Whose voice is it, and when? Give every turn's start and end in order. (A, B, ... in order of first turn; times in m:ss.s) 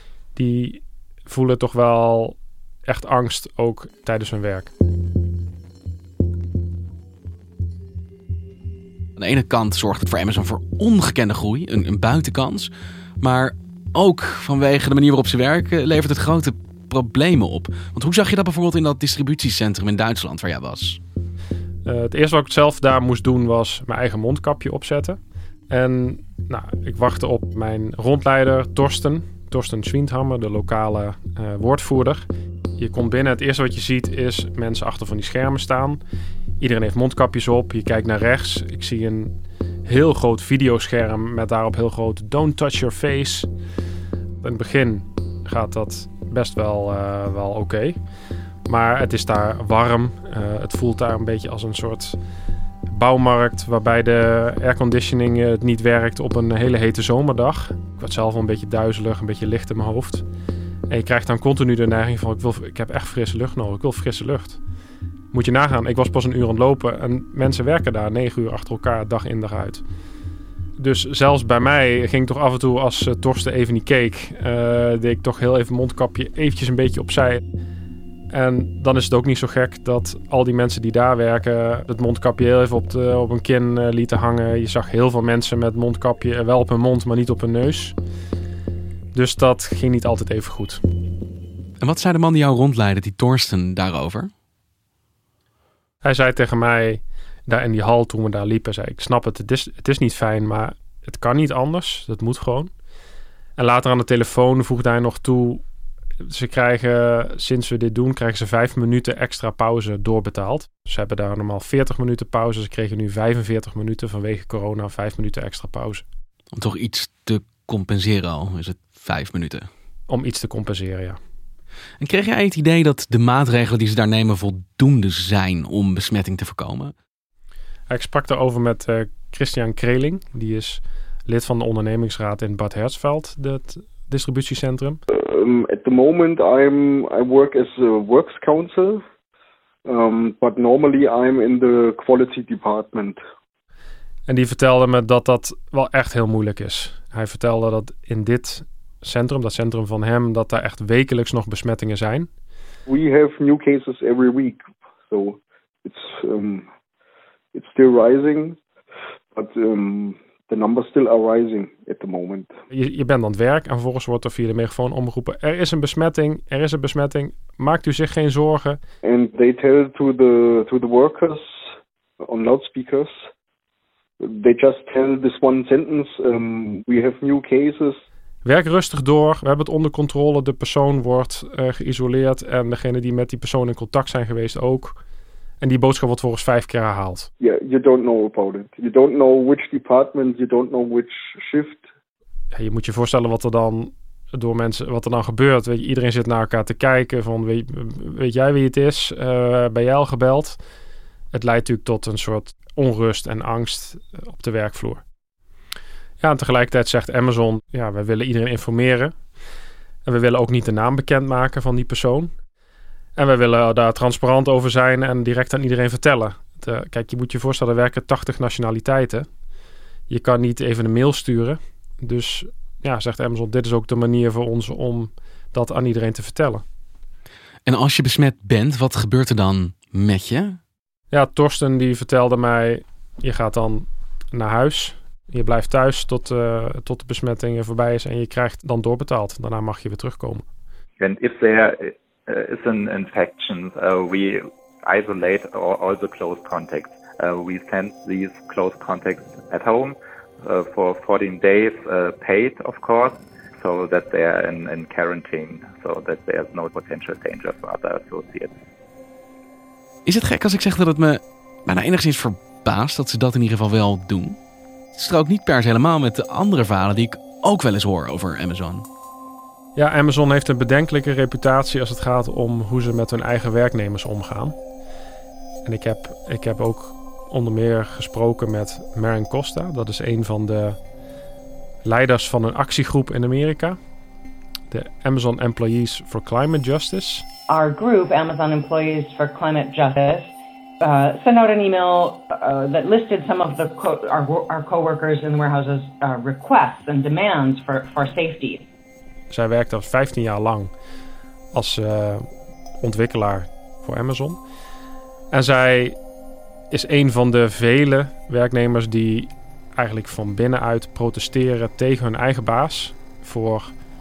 0:00.4-0:04.7 A
0:09.2-0:21.0 B
0:21.9-0:25.2 A
0:25.7-0:36.0 A
0:36.6-0:39.4 A
0:39.9-0:43.5 A
0:44.4-0:48.0 A
0:48.7-0:52.2 A
0:52.9-1:00.2 A
1:00.9-1:04.6 A
1:05.3-1:09.8 A
1:10.8-1:17.4 A
1:18.3-1:28.0 A
1:29.1-1:30.8 A
1:31.8-1:34.3 B
1:36.0-1:42.7 A
1:43.6-1:45.6 A
1:46.2-1:56.0 A
1:56.5-1:59.7 B
2:00.1-2:01.2 A
2:02.0-2:06.9 B
2:07.9-2:15.0 A
2:15.1-2:19.0 C
2:19.9-2:23.2 C
2:24.3-2:32.3 A
2:32.9-2:36.6 C
2:37.5-2:38.6 C
2:39.3-2:42.5 C
2:42.7-2:48.8 A
2:49.0-2:51.6 C
2:52.2-2:53.1 C
2:54.2-2:58.0 C
2:58.4-3:05.0 A
3:05.6-3:07.3 A
3:07.4-3:11.9 C
3:12.5-3:20.6 A
3:21.3-3:25.0 A
3:26.2-3:29.1 A
3:30.1-3:32.3 A
3:33.2-3:39.3 A
3:40.1-3:46.6 A
3:47.7-3:50.6 B
3:51.1-4:00.4 A
4:01.0-4:18.6 D
4:20.1-4:24.4 B
4:25.0-4:28.8 B
4:29.8-4:34.6 A
4:35.6-4:40.8 A
4:41.8-4:43.8 A
4:44.7-4:47.2 A
4:47.5-4:58.6 E
4:59.3-5:00.7 A
5:01.5-5:02.3 A
5:02.8-5:04.4 A
5:05.3-5:06.0 A
5:06.7-5:13.7 A